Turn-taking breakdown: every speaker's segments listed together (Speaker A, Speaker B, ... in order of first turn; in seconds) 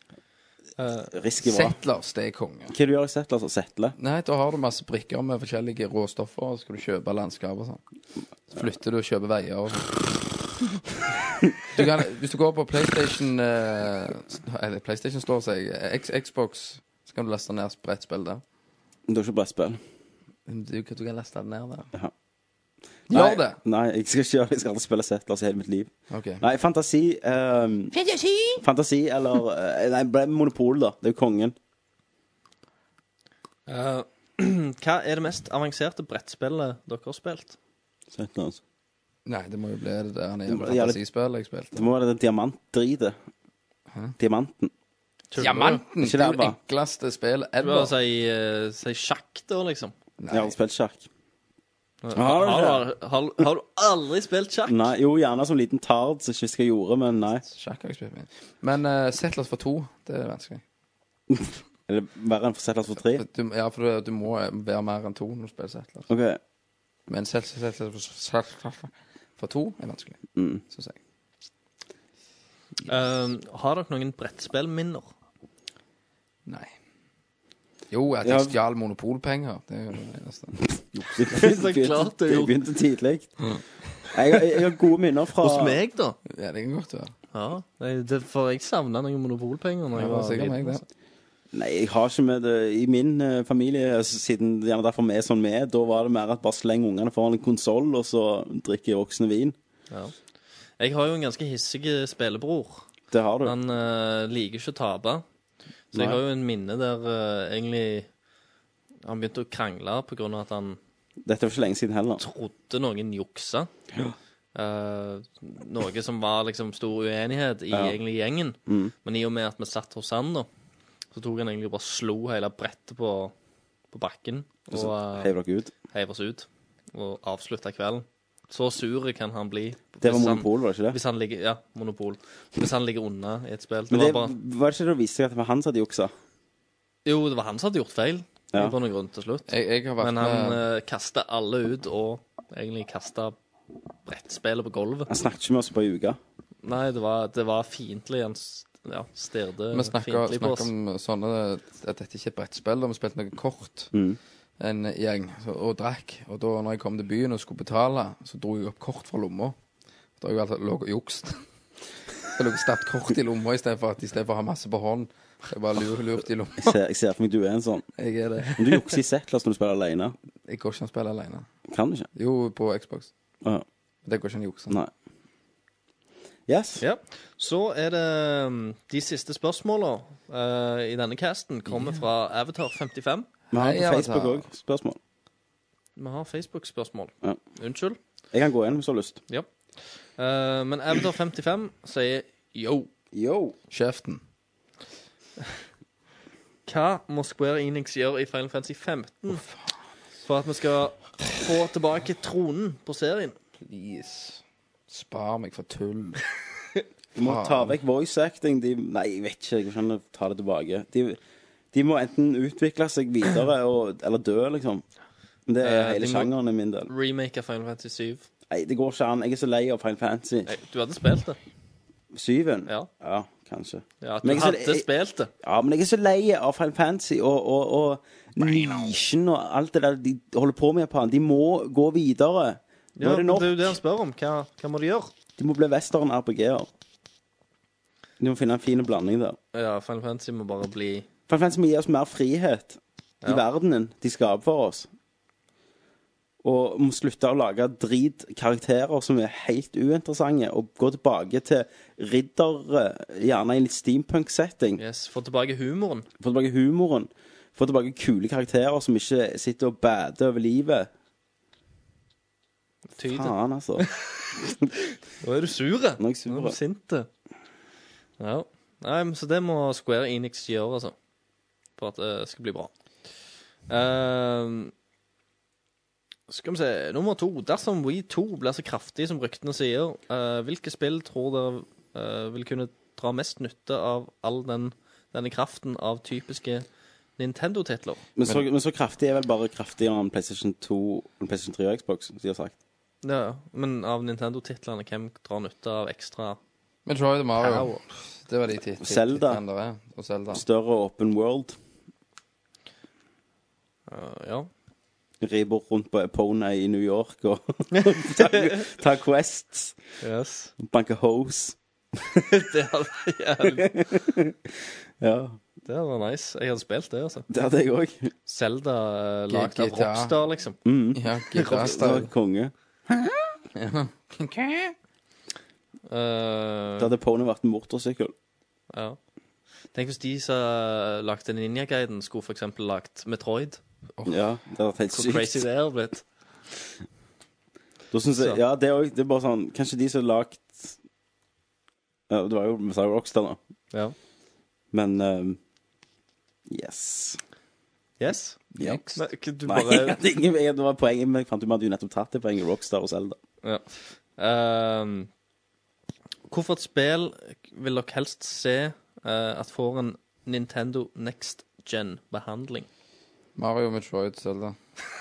Speaker A: 0.8-1.1, 33.7-37.6, 45.3-45.8, 47.6-49.9, 52.0-54.9, 72.9-75.1, 81.3-82.6, 85.4-86.2, 87.3-90.8, 100.8-102.8, 103.4-105.2, 105.9-108.1, 109.0-110.8, 112.2-113.7, 114.5-120.5, 121.1-123.3, 123.9-125.3, 125.9-134.3, 137.1-139.5, 140.0-143.3, 144.1-145.1, 146.6-150.7, 176.8-183.3, 185.9-188.0, 189.3-192.9, 196.7-199.4, 200.2-203.3, 215.6-216.3, 216.9-218.3, 220.5-221.4, 224.0-225.3, 233.0-235.1, 239.5-241.1, 254.8-256.1, 262.9-267.1, 268.2-270.9, 271.8-272.7, 273.7-274.7, 276.3-286.6, 287.2-288.1, 293.0-296.4, 297.4-297.8, 303.9-304.5, 307.7-308.7, 310.0-310.5, 312.1-314.1, 315.6-317.3, 318.3-320.6, 321.4-321.8, 325.9-326.9, 328.7-329.0, 329.7-333.6, 334.9-336.1, 348.0-350.0, 353.4-355.1, 356.3-362.7
Speaker B: 1.1-1.8, 2.7-3.9, 19.1-19.8, 23.1-27.9, 28.6-31.6, 38.1-38.6, 40.5-41.0, 41.7-43.2, 44.2-44.7, 46.0-46.6, 50.3-51.1, 52.1-52.9, 54.7-57.4, 61.3-63.2, 66.1-66.4, 70.3-70.6, 78.2-78.6, 80.9-83.4, 84.1-85.8, 91.5-99.6, 103.1-103.6, 105.9-106.2, 111.2-112.2, 117.7-118.0, 118.7-118.9, 124.7-125.7, 130.0-131.0, 133.9-136.1, 145.1-146.2, 153.9-154.2, 166.6-167.8, 168.6-170.2, 171.7-172.1, 176.5-176.8, 183.5-185.0, 188.3-189.2, 193.1-193.6, 207.1-211.2, 211.7-214.8, 215.5-216.9, 218.5-220.5, 222.1-224.9, 225.4-233.8, 235.4-236.7, 238.2-239.4, 241.3-244.9, 246.4-254.8, 256.2-260.9, 263.0-263.9, 266.0-266.6, 288.2-292.6, 298.8-299.4, 300.3-301.6, 305.2-309.8, 310.6-311.6, 313.4-315.4, 317.3-318.1, 320.6-323.0, 326.8-328.1, 334.1-335.4, 337.9-340.8, 342.1-343.4, 344.7-345.4, 346.5-347.2, 349.4-353.2
Speaker C: 1.4-2.7, 4.0-7.8, 8.5-9.9, 11.7-18.4, 20.5-21.9, 23.1-23.6, 26.1-26.4, 28.0-28.6, 39.3-41.9, 43.9-44.1, 45.4-47.9, 50.2-50.5, 57.4-60.6, 63.1-66.1, 67.1-71.0, 76.5-76.7, 77.9-80.6, 86.3-87.1, 90.0-90.8, 139.5-140.6, 149.7-153.9, 154.6-159.6, 160.2-161.4, 162.3-166.7, 168.0-168.9, 170.5-171.5, 172.1-173.1, 174.1-174.8, 183.5-184.4, 193.7-194.2, 199.3-199.7, 203.6-206.2, 207.2-207.7, 296.9-300.4, 319.3-320.1, 320.9-322.1, 323.6-324.7, 348.5-349.1, 363.4-364.6